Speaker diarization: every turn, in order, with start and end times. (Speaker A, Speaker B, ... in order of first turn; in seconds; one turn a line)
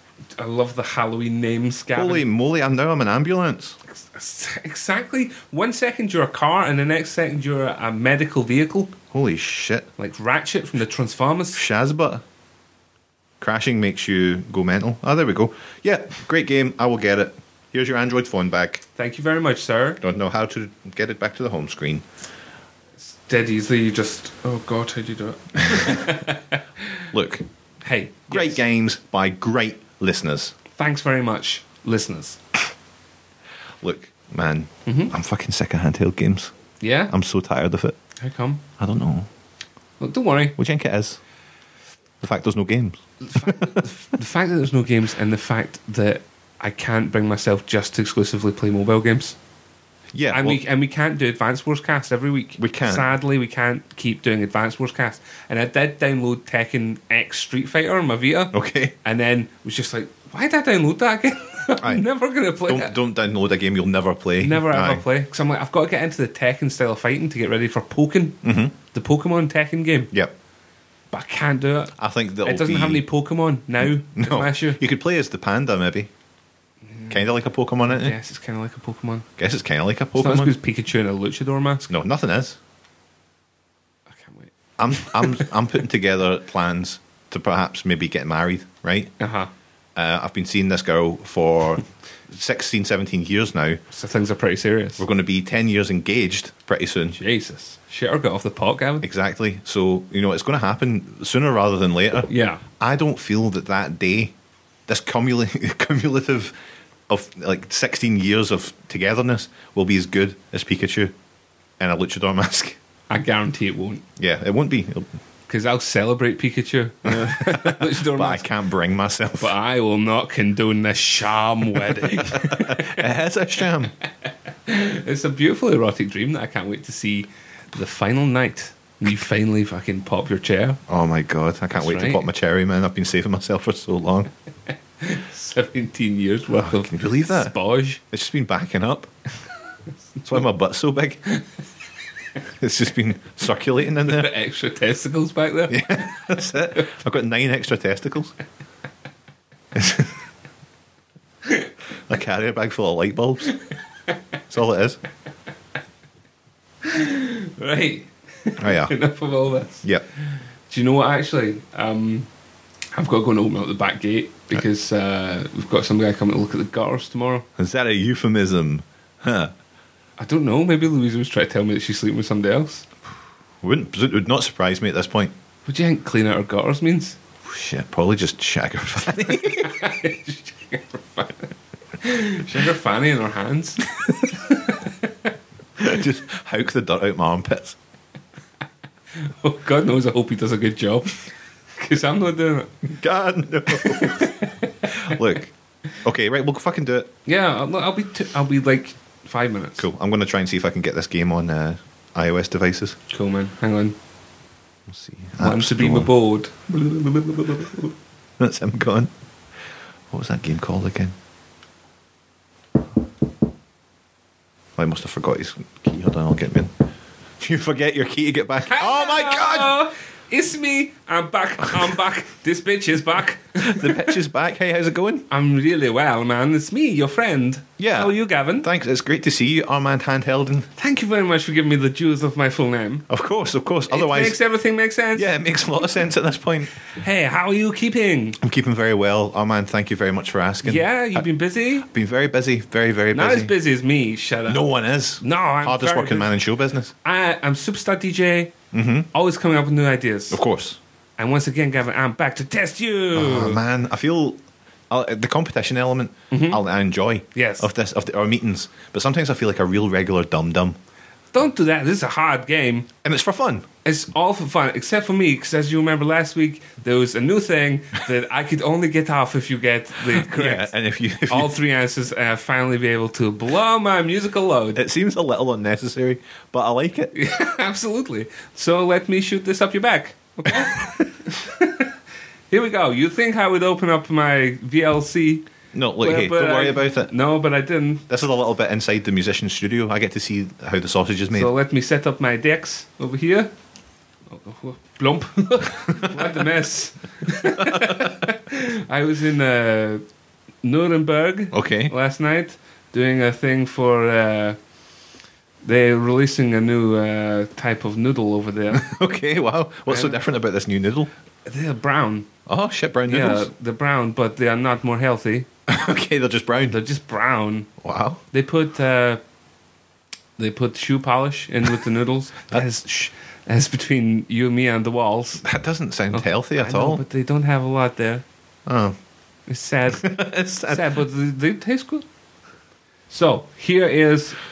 Speaker A: 0.4-2.3
Speaker B: 1.9-3.8
Speaker A: 3.9-8.9
Speaker B: 9.1-9.9
Speaker A: 10.0-11.6
Speaker B: 11.5-12.2
Speaker B: 13.4-18.8
Speaker A: 18.9-20.0
Speaker B: 20.0-22.0
Speaker A: 23.1-27.0
Speaker B: 25.7-26.0
Speaker B: 27.1-27.4
Speaker A: 27.8-28.6
Speaker B: 28.3-30.6
Speaker A: 30.8-32.4
Speaker B: 33.8-36.5
Speaker A: 34.9-35.1
Speaker A: 36.8-37.1
Speaker B: 37.1-38.0
Speaker A: 38.2-38.6
Speaker B: 38.8-39.3
Speaker A: 40.0-40.5
Speaker B: 40.6-41.2
Speaker B: 42.2-43.8
Speaker A: 43.2-49.4
Speaker B: 50.1-50.6
Speaker A: 50.3-62.9
Speaker B: 52.6-53.1
Speaker B: 58.5-58.9
Speaker B: 61.8-62.0
Speaker B: 62.6-65.0
Speaker A: 64.4-70.1
Speaker B: 68.4-68.7
Speaker A: 71.1-74.8
Speaker B: 72.0-73.0
Speaker B: 73.8-76.1
Speaker A: 76.9-77.2
Speaker B: 77.1-78.2
Speaker A: 77.8-79.2
Speaker B: 79.4-80.5
Speaker A: 80.2-81.9
Speaker B: 81.9-82.6
Speaker A: 84.1-85.4
Speaker B: 84.8-89.1
Speaker A: 89.2-89.5
Speaker B: 90.0-93.8
Speaker A: 93.9-95.0
Speaker B: 95.0-97.2
Speaker A: 97.1-99.0
Speaker B: 99.0-102.3
Speaker A: 102.3-102.6
Speaker B: 102.8-104.3
Speaker B: 104.9-106.5
Speaker B: 107.1-111.1
Speaker B: 111.8-112.8
Speaker A: 113.1-114.0
Speaker B: 114.2-115.1
Speaker A: 115.5-118.4
Speaker B: 117.0-119.5
Speaker A: 119.4-123.0
Speaker B: 122.2-123.9
Speaker A: 124.7-130.8
Speaker B: 130.9-134.3
Speaker A: 131.7-132.2
Speaker A: 135.0-138.0
Speaker B: 136.6-137.5
Speaker B: 138.1-139.1
Speaker B: 140.2-141.2
Speaker B: 142.6-144.3
Speaker A: 144.0-146.2
Speaker B: 145.7-148.3
Speaker B: 149.7-150.1
Speaker B: 152.1-153.5
Speaker B: 154.5-155.0
Speaker A: 156.8-159.8
Speaker B: 158.6-158.9
Speaker A: 160.7-162.3
Speaker A: 162.9-167.4
Speaker B: 167.6-169.5
Speaker A: 170.2-172.9
Speaker B: 173.6-175.3
Speaker A: 175.7-177.2
Speaker B: 177.4-179.8
Speaker A: 179.5-185.1
Speaker B: 185.8-187.8
Speaker A: 189.2-191.2
Speaker A: 191.8-192.7
Speaker B: 192.8-197.1
Speaker A: 193.7-195.1
Speaker A: 197.2-199.8
Speaker B: 199.8-203.0
Speaker A: 203.1-203.9
Speaker B: 204.9-206.1
Speaker A: 205.4-207.9
Speaker B: 208.4-209.1
Speaker B: 210.1-211.1
Speaker B: 214.8-216.7
Speaker B: 217.4-219.8
Speaker A: 218.7-224.1
Speaker B: 223.6-225.3
Speaker A: 225.3-228.7
Speaker B: 227.8-230.7
Speaker A: 230.8-233.1
Speaker B: 233.1-234.4
Speaker A: 233.9-235.3
Speaker B: 235.2-236.7
Speaker A: 236.9-238.4
Speaker B: 238.4-241.2
Speaker A: 240.6-241.9
Speaker B: 241.8-243.5
Speaker A: 243.1-244.6
Speaker B: 244.5-246.9
Speaker A: 245.2-246.3
Speaker A: 247.0-248.5
Speaker B: 248.7-249.1
Speaker A: 249.1-250.4
Speaker B: 250.3-250.8
Speaker A: 251.2-253.6
Speaker B: 253.1-254.4
Speaker B: 254.9-260.8
Speaker A: 256.3-256.6
Speaker A: 257.3-257.7
Speaker A: 261.3-262.9
Speaker B: 263.0-263.6
Speaker A: 263.8-270.7
Speaker B: 270.1-271.5
Speaker A: 271.3-274.8
Speaker B: 274.7-277.1
Speaker A: 277.1-281.9
Speaker A: 282.5-285.4
Speaker B: 285.7-287.1
Speaker A: 286.0-288.0
Speaker B: 288.1-291.5
Speaker A: 291.3-293.5
Speaker A: 294.3-300.0
Speaker B: 297.6-298.1
Speaker A: 300.6-304.6
Speaker B: 301.5-301.9
Speaker A: 305.6-308.9
Speaker B: 308.7-311.1
Speaker A: 309.9-310.2
Speaker A: 311.4-312.3
Speaker B: 312.5-313.5
Speaker A: 313.1-315.5
Speaker B: 315.7-316.8
Speaker A: 316.7-317.7
Speaker B: 317.8-318.2
Speaker A: 318.3-319.2
Speaker A: 320.4-325.4
Speaker B: 325.4-327.0
Speaker A: 326.1-328.2
Speaker B: 328.6-328.9
Speaker A: 329.5-330.1
Speaker B: 329.9-330.9
Speaker A: 330.6-332.0
Speaker A: 333.1-334.4